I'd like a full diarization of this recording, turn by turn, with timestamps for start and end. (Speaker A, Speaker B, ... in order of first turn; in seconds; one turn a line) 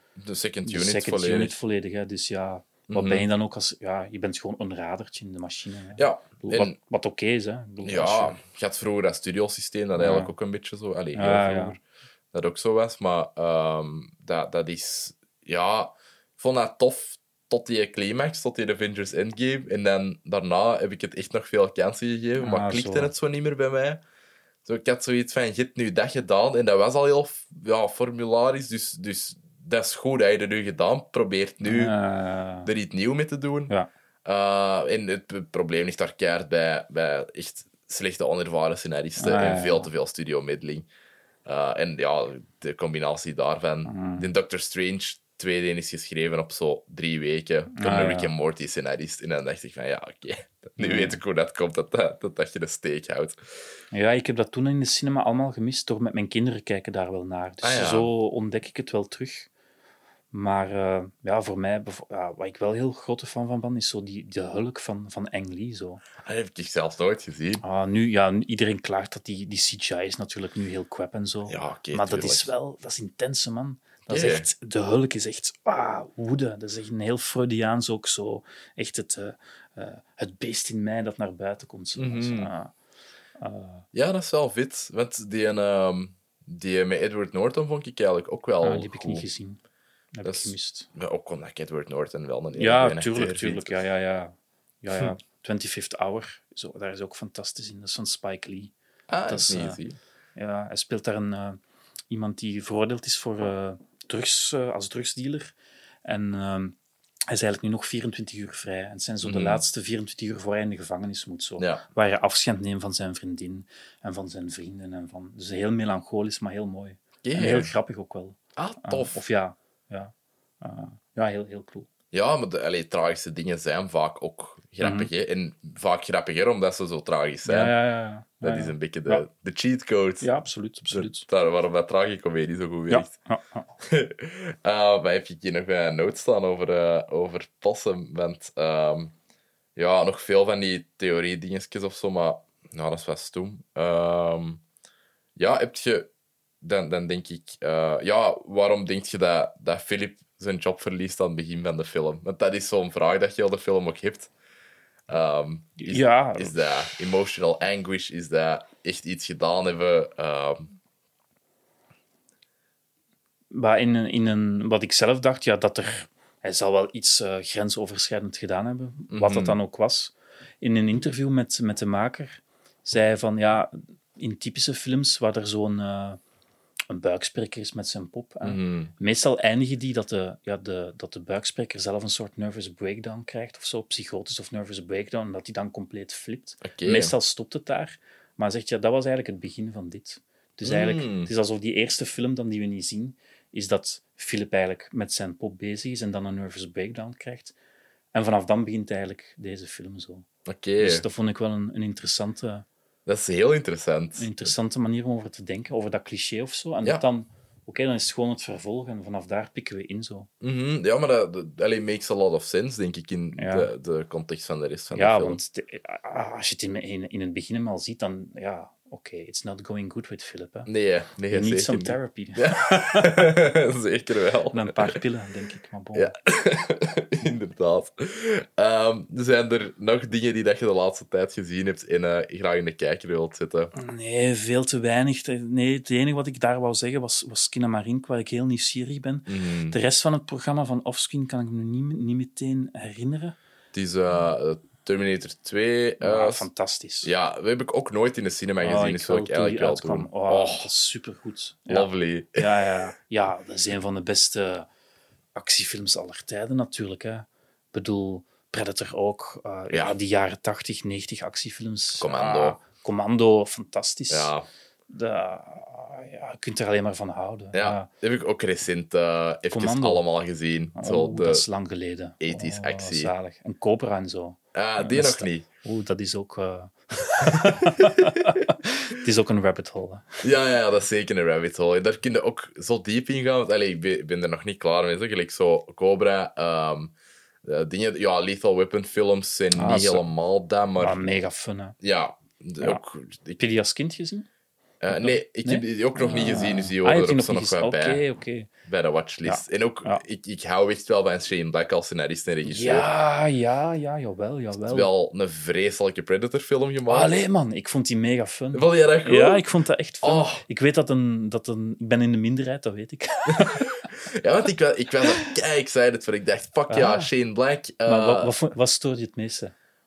Speaker A: 0.2-1.5
Speaker B: 0.6-8.4
Speaker A: 2.9-3.2
Speaker A: 6.0-6.8
Speaker A: 7.8-11.8
Speaker B: 9.9-10.3
Speaker B: 11.1-11.8
Speaker A: 12.3-24.0
Speaker B: 22.4-23.1
Speaker A: 24.6-31.9
Speaker B: 31.6-32.7
Speaker A: 32.6-33.7
Speaker A: 34.2-40.9
Speaker B: 39.2-39.9
Speaker A: 41.4-53.4
Speaker B: 43.8-44.3
Speaker B: 47.7-48.3
Speaker B: 50.8-51.2
Speaker B: 53.9-59.5
Speaker A: 57.6-58.1
Speaker B: 60.3-66.0
Speaker A: 66.2-67.6
Speaker B: 67.6-82.7
Speaker A: 71.5-72.5
Speaker A: 74.1-74.5
Speaker A: 82.0-82.5
Speaker B: 83.4-83.8
Speaker A: 83.9-89.2
Speaker B: 88.6-89.6
Speaker B: 90.1-90.9
Speaker A: 90.2-93.8
Speaker B: 92.5-98.7
Speaker A: 99.1-100.0
Speaker B: 99.3-99.8
Speaker B: 100.3-106.8
Speaker B: 107.3-121.9
Speaker A: 109.2-109.6
Speaker A: 111.6-111.8
Speaker A: 117.2-117.7
Speaker A: 118.5-119.2
Speaker A: 122.1-127.7
Speaker B: 124.8-125.1
Speaker B: 127.4-129.2
Speaker A: 128.4-130.3
Speaker B: 130.2-131.3
Speaker A: 130.9-133.1
Speaker B: 132.9-133.7
Speaker A: 133.8-139.1
Speaker A: 139.8-144.6
Speaker A: 145.3-146.1
Speaker A: 146.6-154.3
Speaker A: 155.1-160.7
Speaker B: 155.8-156.9
Speaker B: 163.5-176.2
Speaker A: 169.1-169.6
Speaker B: 176.9-197.6
Speaker A: 178.4-178.9
Speaker A: 186.6-187.1
Speaker A: 190.6-191.3
Speaker B: 198.1-200.3
Speaker A: 200.4-201.0
Speaker B: 200.8-202.7
Speaker A: 203.1-204.3
Speaker B: 204.2-210.3
Speaker A: 210.4-215.4
Speaker B: 213.3-213.7
Speaker B: 214.9-220.7
Speaker A: 220.7-225.0
Speaker B: 221.3-223.3
Speaker B: 224.5-226.1
Speaker A: 225.9-233.7
Speaker B: 233.7-243.3
Speaker A: 239.3-239.8
Speaker A: 243.7-246.5
Speaker B: 246.0-247.1
Speaker A: 247.0-250.7
Speaker B: 248.6-254.7
Speaker A: 251.7-252.5
Speaker B: 255.3-264.3
Speaker A: 262.0-262.6
Speaker A: 264.1-264.5
Speaker B: 264.9-267.9
Speaker A: 267.5-271.4
Speaker B: 269.5-270.0
Speaker B: 270.7-280.2
Speaker A: 272.2-273.1
Speaker A: 274.5-275.4
Speaker A: 280.2-286.9
Speaker A: 287.4-291.0
Speaker B: 289.5-290.1
Speaker B: 290.8-291.8
Speaker A: 291.8-293.4
Speaker B: 293.4-294.3
Speaker A: 294.8-298.0
Speaker B: 294.9-298.5
Speaker A: 298.6-302.9
Speaker B: 299.2-300.0
Speaker B: 302.4-304.9
Speaker A: 304.7-307.2
Speaker B: 306.9-313.9
Speaker A: 308.5-309.4
Speaker A: 310.0-310.4
Speaker A: 313.4-318.3
Speaker B: 316.7-317.1
Speaker B: 317.8-319.5